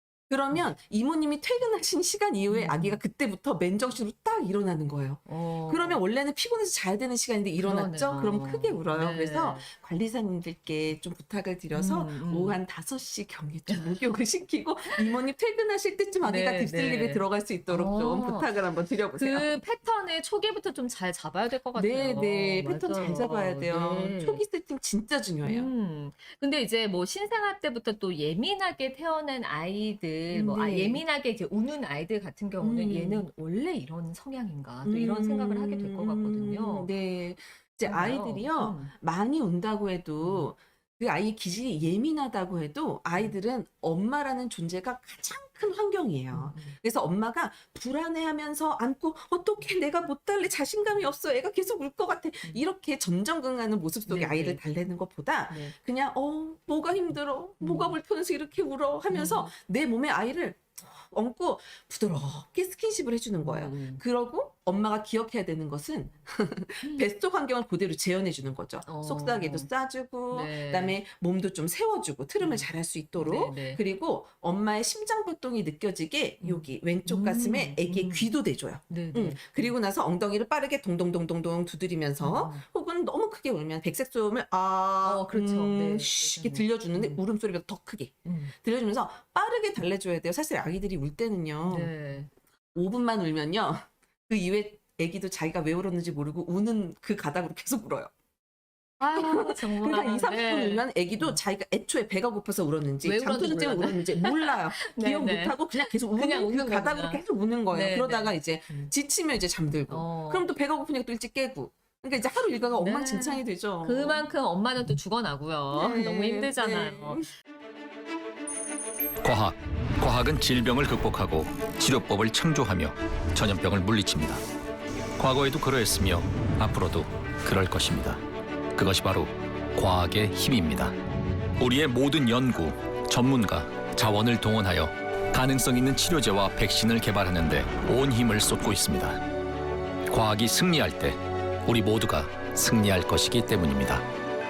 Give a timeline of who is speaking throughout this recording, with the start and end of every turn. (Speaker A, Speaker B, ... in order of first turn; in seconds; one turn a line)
Speaker A: 0.3-19.5
Speaker B: 2.5-3.0
Speaker B: 5.3-6.0
Speaker B: 7.6-9.7
Speaker B: 11.7-12.6
Speaker B: 16.2-18.5
Speaker B: 19.1-24.4
Speaker A: 21.7-25.7
Speaker B: 25.4-36.9
Speaker A: 30.3-31.0
Speaker A: 32.6-33.3
Speaker A: 34.9-91.9
Speaker B: 37.9-38.9
Speaker B: 40.2-40.5
Speaker B: 46.3-46.8
Speaker B: 54.1-54.6
Speaker B: 55.5-55.8
Speaker B: 57.6-58.0
Speaker B: 59.1-59.5
Speaker B: 63.4-64.0
Speaker B: 66.8-67.1
Speaker B: 68.8-69.7
Speaker B: 70.3-71.0
Speaker B: 72.4-73.8
Speaker B: 76.4-78.3
Speaker B: 78.9-79.8
Speaker B: 82.2-82.6
Speaker B: 85.0-87.2
Speaker B: 88.2-88.5
Speaker B: 91.6-92.3
Speaker A: 92.8-98.1
Speaker B: 99.0-101.4
Speaker A: 99.1-114.2
Speaker B: 103.0-108.9
Speaker B: 109.9-110.5
Speaker B: 112.8-117.2
Speaker A: 115.7-117.3
Speaker C: 119.2-124.4
Speaker C: 125.2-128.2
Speaker C: 128.7-131.0
Speaker C: 131.6-139.2
Speaker C: 140.1-144.1